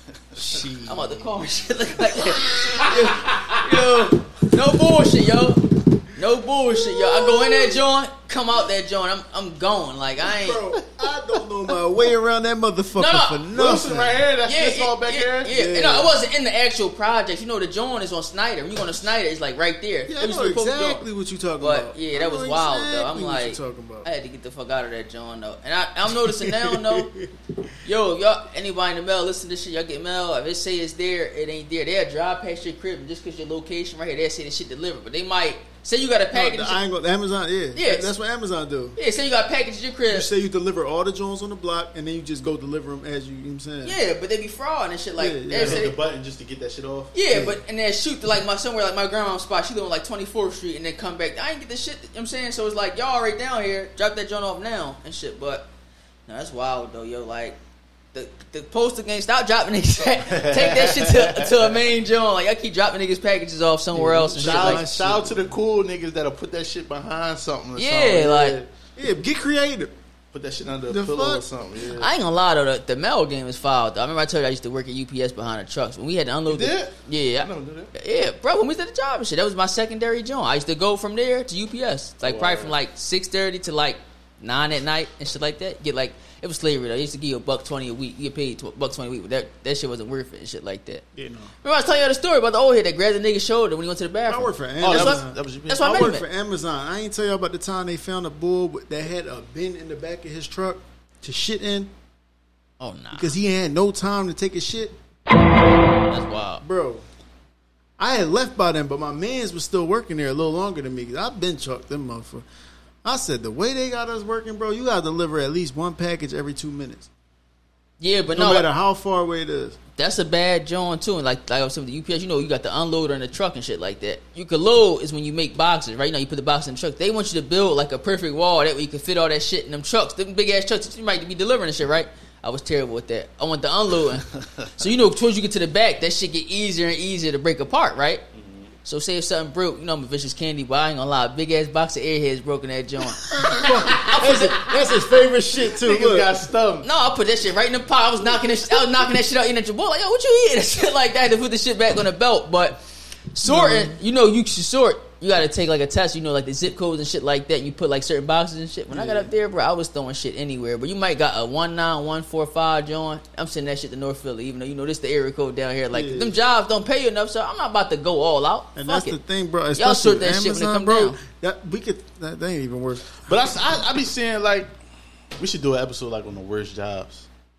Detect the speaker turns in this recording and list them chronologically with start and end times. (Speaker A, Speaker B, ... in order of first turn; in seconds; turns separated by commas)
Speaker A: 0.3-1.3, Speaker B: 0.7-10.6, Speaker A: 2.8-3.3, Speaker A: 6.9-7.8, Speaker A: 10.2-14.2, Speaker B: 12.9-13.4, Speaker C: 13.5-15.5, Speaker B: 14.4-21.0, Speaker A: 15.5-16.1, Speaker A: 20.1-24.1, Speaker B: 21.6-27.1, Speaker A: 26.2-27.3, Speaker B: 27.8-36.8, Speaker A: 36.3-39.0, Speaker B: 37.7-38.1, Speaker B: 39.0-40.3, Speaker A: 40.1-44.0, Speaker B: 43.8-46.0, Speaker A: 45.2-45.9, Speaker C: 45.5-47.1, Speaker B: 47.1-55.7, Speaker A: 47.3-47.6, Speaker B: 56.3-57.6, Speaker B: 58.1-64.8, Speaker C: 60.2-61.8, Speaker A: 63.9-65.5, Speaker C: 64.4-68.7, Speaker B: 67.8-68.6, Speaker A: 69.0-69.9, Speaker C: 70.3-72.1, Speaker A: 70.9-71.4, Speaker B: 71.8-91.0, Speaker C: 76.5-77.9, Speaker C: 82.2-82.8, Speaker A: 91.1-91.5, Speaker B: 91.6-96.2, Speaker A: 94.3-101.9, Speaker C: 94.8-95.9, Speaker B: 102.8-103.3, Speaker A: 103.1-104.9, Speaker B: 106.1-106.6, Speaker A: 106.6-107.0, Speaker A: 108.0-112.5, Speaker A: 113.0-117.1, Speaker B: 118.0-118.7, Speaker A: 118.3-119.8, Speaker B: 120.0-138.2, Speaker C: 134.4-134.7, Speaker C: 138.3-138.7, Speaker B: 138.8-144.7, Speaker A: 143.3-146.3, Speaker C: 143.6-144.2, Speaker C: 145.6-146.9, Speaker B: 146.8-152.8, Speaker B: 153.3-169.2, Speaker A: 153.4-154.0, Speaker A: 158.9-159.3, Speaker A: 165.9-166.4, Speaker A: 168.8-173.3, Speaker B: 169.7-171.2, Speaker C: 173.2-174.7, Speaker C: 175.4-177.3